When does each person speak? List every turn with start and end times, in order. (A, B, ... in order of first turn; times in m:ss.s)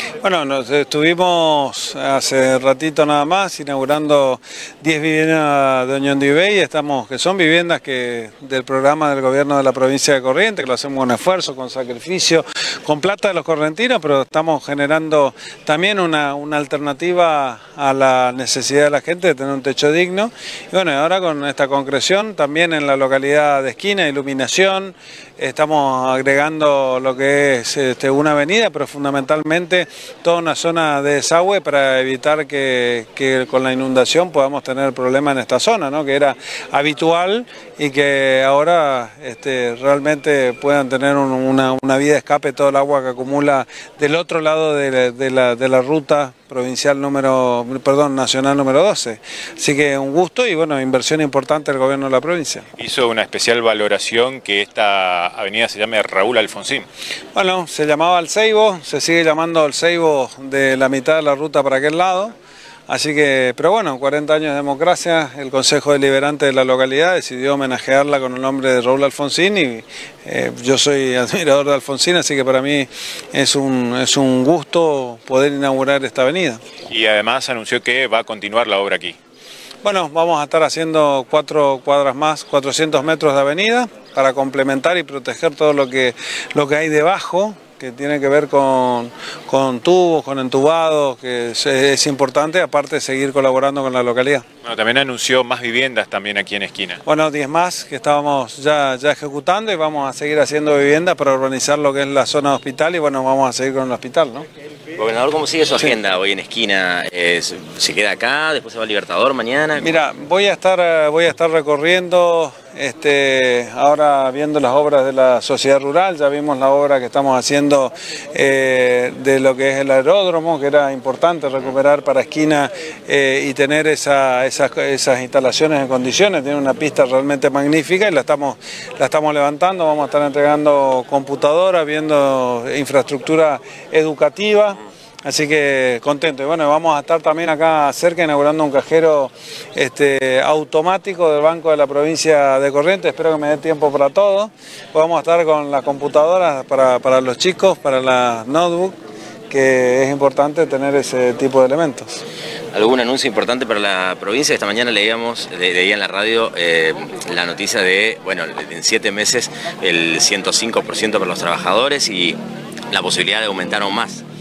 0:00.2-0:52.6 A
0:52.8-0:56.9 B
0:57.3-1:02.3 A
1:02.9-1:16.6 A
1:16.9-1:19.2 B
1:19.8-1:34.4 A
1:34.6-1:37.0 B
1:37.0-1:44.4 A
1:44.9-1:49.9 C
1:49.8-2:29.0 A
2:29.5-2:32.2 A
2:32.7-2:42.4 C
2:42.9-2:44.2 C